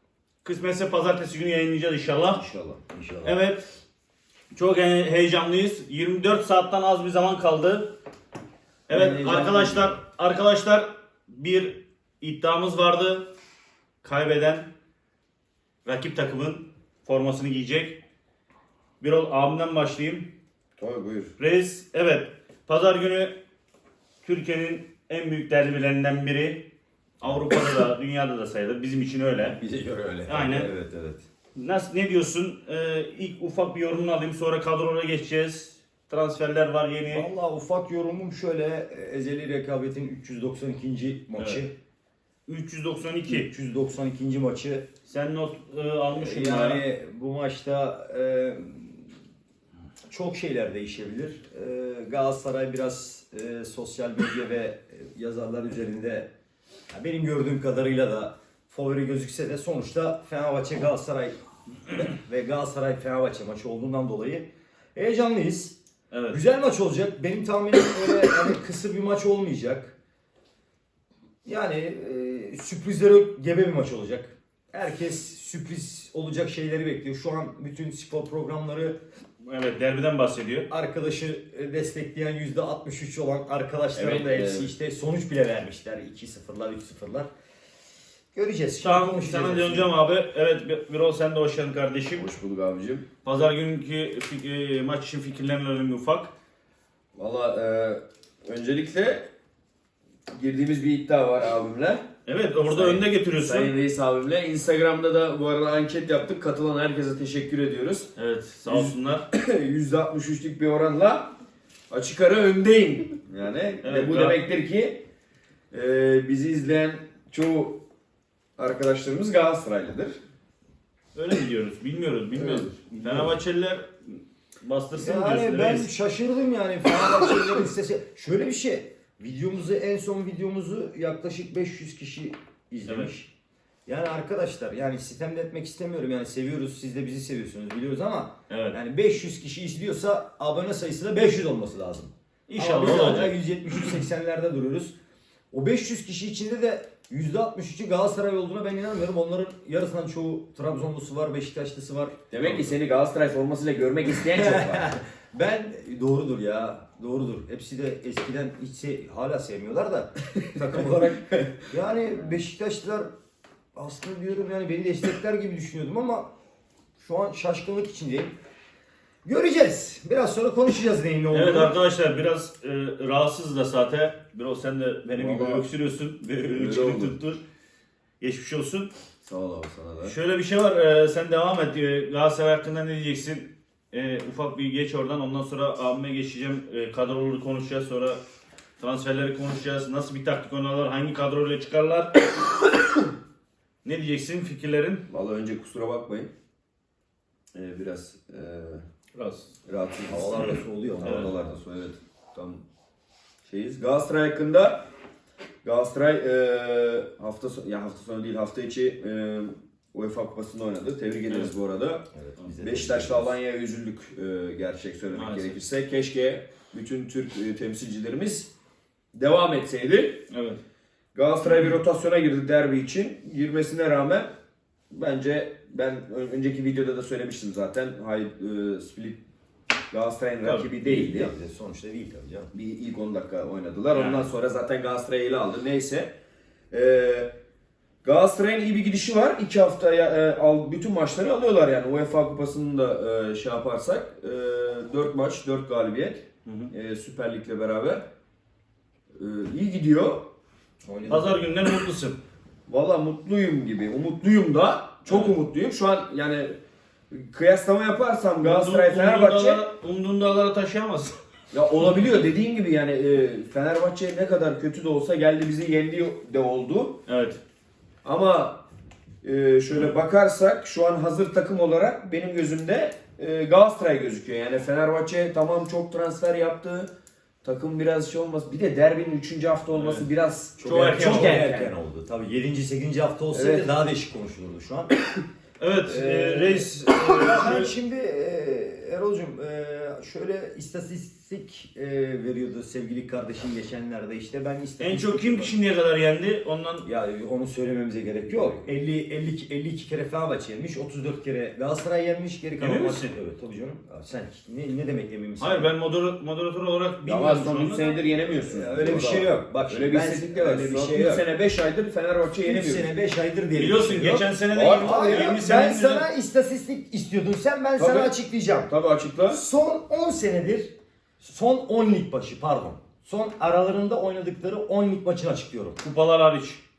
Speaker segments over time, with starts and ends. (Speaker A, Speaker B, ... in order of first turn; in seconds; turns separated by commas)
Speaker A: 0.4-2.4, Speaker B: 2.4-2.8, Speaker C: 2.9-3.4, Speaker A: 3.2-3.6, Speaker A: 4.5-7.9, Speaker A: 8.9-13.3, Speaker C: 8.9-10.0, Speaker A: 14.0-14.7, Speaker A: 15.8-18.0, Speaker A: 19.0-20.3, Speaker B: 20.8-21.3, Speaker A: 21.4-23.3, Speaker A: 24.2-26.6, Speaker A: 27.2-29.6, Speaker C: 27.2-27.5, Speaker C: 29.5-31.2, Speaker A: 30.3-30.7, Speaker A: 31.6-37.3, Speaker C: 37.1-41.7, Speaker A: 42.5-43.5, Speaker C: 43.3-44.9, Speaker A: 45.1-46.8, Speaker C: 46.1-49.1, Speaker C: 50.1-56.3, Speaker C: 56.9-61.4, Speaker C: 61.9-65.8, Speaker A: 66.1-66.4, Speaker C: 66.3-70.0, Speaker C: 71.5-79.0, Speaker A: 79.4-80.7, Speaker C: 80.7-87.3, Speaker B: 84.0-84.7, Speaker C: 88.3-89.9, Speaker A: 88.8-92.3, Speaker B: 92.2-93.0, Speaker A: 93.2-96.3, Speaker B: 97.1-99.3, Speaker B: 100.3-102.0, Speaker A: 102.3-103.7, Speaker B: 102.7-108.1, Speaker A: 108.2-109.3, Speaker B: 108.7-111.3, Speaker B: 111.9-115.0, Speaker A: 113.8-114.4, Speaker B: 115.7-117.8, Speaker B: 118.6-120.2, Speaker A: 121.1-125.9, Speaker B: 122.3-123.3, Speaker C: 124.9-133.3, Speaker C: 133.8-144.9, Speaker A: 138.5-138.8, Speaker A: 142.5-143.3, Speaker C: 145.5-152.7, Speaker B: 152.3-154.9, Speaker C: 154.2-161.2, Speaker B: 160.4-161.6, Speaker C: 161.7-163.1, Speaker C: 163.7-166.3, Speaker C: 167.0-168.3, Speaker C: 169.2-171.7, Speaker A: 171.3-177.4, Speaker B: 175.1-175.6, Speaker B: 176.5-177.2, Speaker A: 178.2-178.9, Speaker B: 179.2-180.1, Speaker A: 180.0-188.2, Speaker A: 188.8-192.1, Speaker A: 193.8-195.0, Speaker B: 195.1-196.3, Speaker B: 197.5-198.8, Speaker A: 199.1-199.5, Speaker B: 199.7-202.6, Speaker C: 200.1-201.6, Speaker A: 201.0-201.3, Speaker B: 203.4-204.8, Speaker B: 205.6-212.0, Speaker C: 212.1-213.3, Speaker B: 212.6-218.5, Speaker A: 215.1-215.6, Speaker B: 219.1-220.2, Speaker A: 220.3-220.6, Speaker B: 221.1-224.3, Speaker A: 221.4-221.8, Speaker B: 224.9-229.2, Speaker B: 229.9-231.3, Speaker A: 230.4-230.7, Speaker C: 230.8-232.5, Speaker B: 232.5-236.1, Speaker A: 233.9-234.3, Speaker B: 236.7-237.3, Speaker B: 238.0-248.1, Speaker A: 246.4-246.7, Speaker B: 249.1-250.2, Speaker C: 250.8-251.6, Speaker A: 251.1-252.2, Speaker B: 252.7-256.6, Speaker A: 255.1-255.4, Speaker B: 257.1-259.6, Speaker A: 258.4-261.2, Speaker B: 261.5-267.0, Speaker A: 267.1-267.4, Speaker B: 268.0-268.6, Speaker B: 269.2-276.9, Speaker B: 277.4-281.7, Speaker A: 279.7-280.1, Speaker C: 280.6-284.9, Speaker A: 280.6-281.4, Speaker B: 283.3-283.7, Speaker A: 285.6-287.7, Speaker B: 285.9-287.0, Speaker C: 287.0-295.5, Speaker A: 294.8-296.9, Speaker C: 296.8-305.7, Speaker A: 302.6-303.1, Speaker A: 305.4-307.9, Speaker B: 307.1-312.9, Speaker C: 308.5-311.3, Speaker C: 312.4-318.7, Speaker A: 313.6-316.1, Speaker B: 314.5-315.4, Speaker B: 317.8-318.1, Speaker B: 318.7-319.4, Speaker C: 319.3-325.8, Speaker A: 325.8-326.6